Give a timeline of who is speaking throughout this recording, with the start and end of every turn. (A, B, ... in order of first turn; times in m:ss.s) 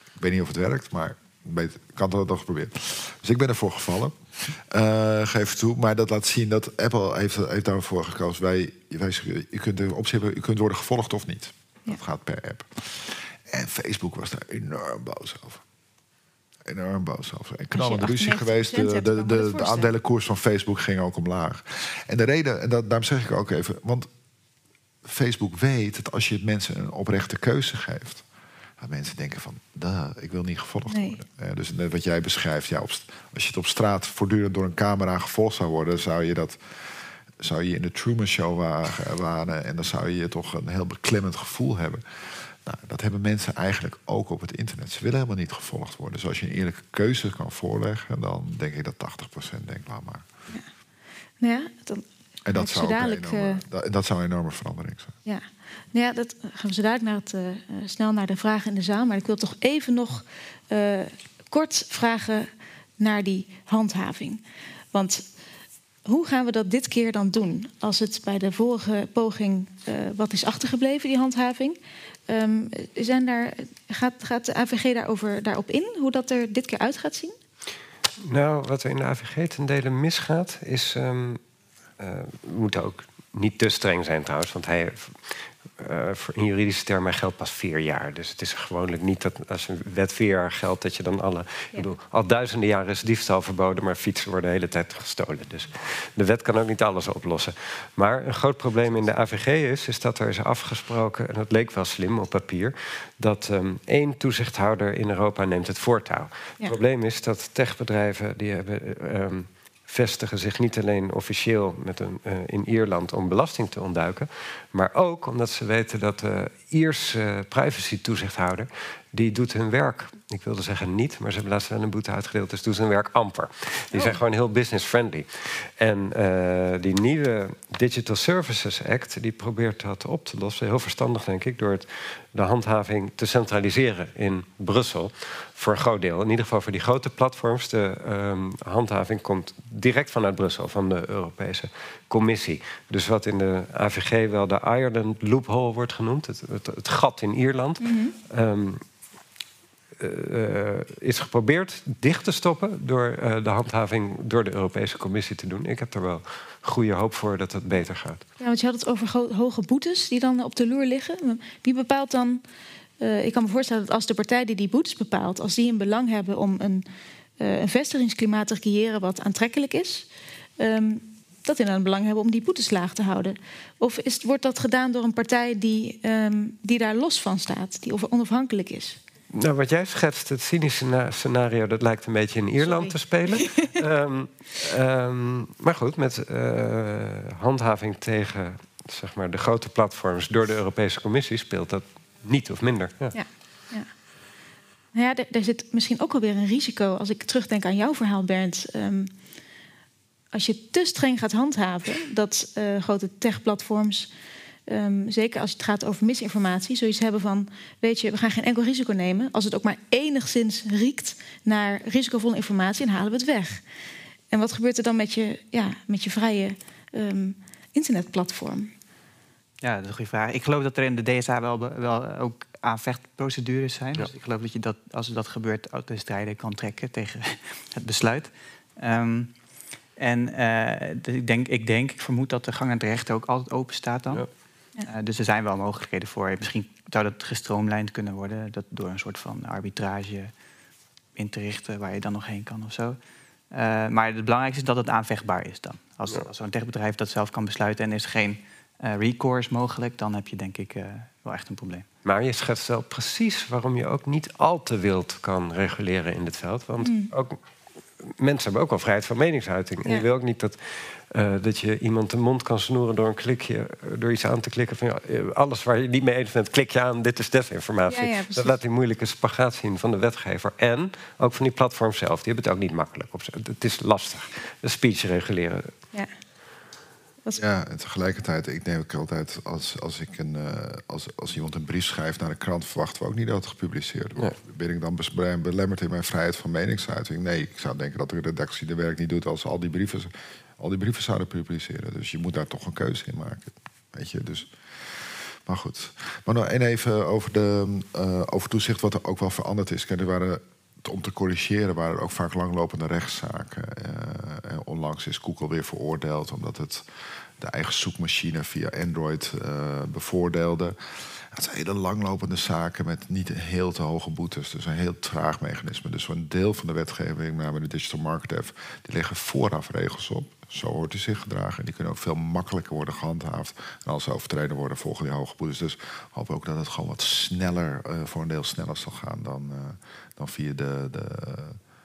0:00.2-0:15.6 A
0:16.6-0:24.1 A
0:17.7-0:19.9 B
0:25.0-0:28.2 A
0:28.8-0:50.3 A
0:30.9-0:31.2 B
0:51.4-0:53.6 B
0:52.4-0:55.2 A
0:55.2-1:05.2 B
1:06.0-1:11.8 B
1:12.3-1:17.3 B
1:18.2-1:21.4 C
1:22.0-2:28.8 C
2:03.9-2:04.2 B
2:27.8-2:28.1 B
2:30.0-2:38.2 C
2:38.4-2:42.4 B
2:43.0-2:46.8 B
2:47.4-2:50.1 B
2:50.6-2:59.0 B
2:59.3-3:13.2 C
3:02.6-3:03.8 B
3:13.1-3:13.9 B
3:14.9-3:19.1 B
3:20.3-3:24.1 B
3:24.7-3:33.6 B
3:34.3-3:38.7 B
3:39.6-3:49.3 D
3:50.0-3:54.3 D
3:54.8-4:00.3 D
4:01.1-4:03.0 D
4:03.5-4:11.8 D
4:12.0-4:17.4 C
4:16.8-4:17.1 B
4:18.0-4:35.7 C
4:27.9-4:28.6 B
4:37.4-5:06.8 A
5:07.4-5:31.6 A